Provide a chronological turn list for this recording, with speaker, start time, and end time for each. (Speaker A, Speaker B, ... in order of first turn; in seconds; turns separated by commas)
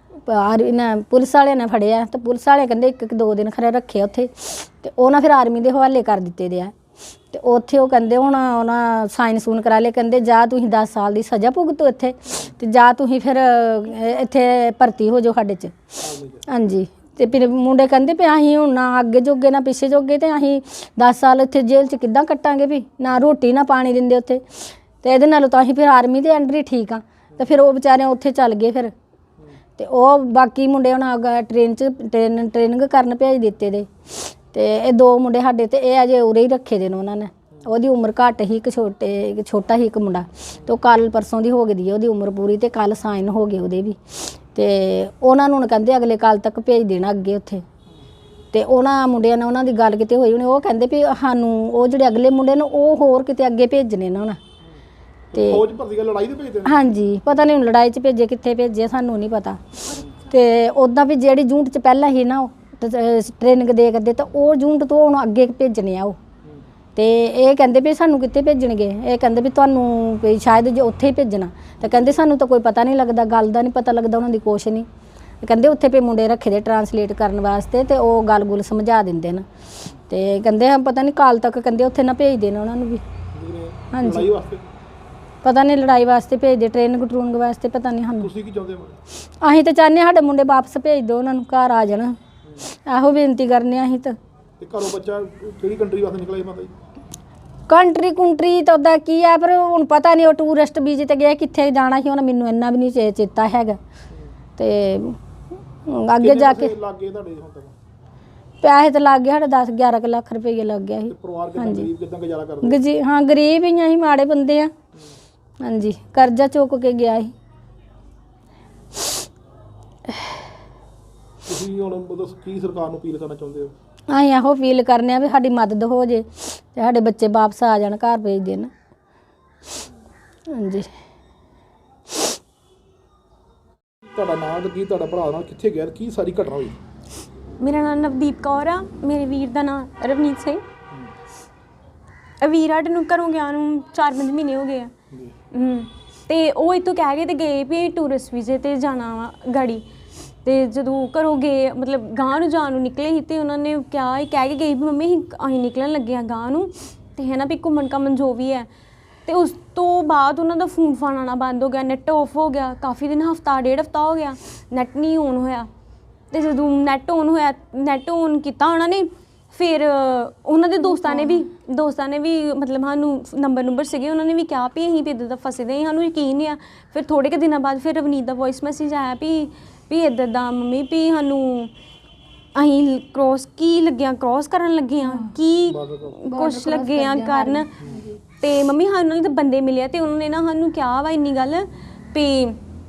Speaker A: 0.2-6.7, Speaker A: 7.3-15.9, Speaker B: 16.0-16.4, Speaker A: 16.5-28.9, Speaker A: 29.8-47.6, Speaker A: 48.5-54.4, Speaker B: 55.3-56.9, Speaker A: 55.4-55.6, Speaker A: 56.6-66.2, Speaker A: 67.0-74.9, Speaker A: 75.4-79.5, Speaker A: 80.1-83.0, Speaker B: 83.3-84.6, Speaker A: 83.9-84.3, Speaker A: 85.4-88.3, Speaker B: 88.2-89.0, Speaker A: 89.4-94.2, Speaker B: 94.6-96.7, Speaker A: 97.7-103.8, Speaker A: 104.6-105.2, Speaker A: 105.8-106.7, Speaker B: 106.2-107.7, Speaker A: 108.6-111.9, Speaker B: 111.1-112.8, Speaker A: 112.6-114.7, Speaker A: 115.6-117.3, Speaker B: 121.5-123.7, Speaker A: 124.1-128.7, Speaker A: 130.5-130.9, Speaker B: 134.1-136.8, Speaker C: 137.6-140.6, Speaker C: 142.4-144.9, Speaker C: 145.5-149.8, Speaker C: 150.4-158.7, Speaker C: 159.2-165.7, Speaker C: 166.3-181.7, Speaker A: 170.9-171.4, Speaker C: 182.5-187.7, Speaker A: 185.0-185.3, Speaker B: 185.6-186.2, Speaker A: 186.2-188.2, Speaker B: 187.8-188.1, Speaker C: 188.4-192.6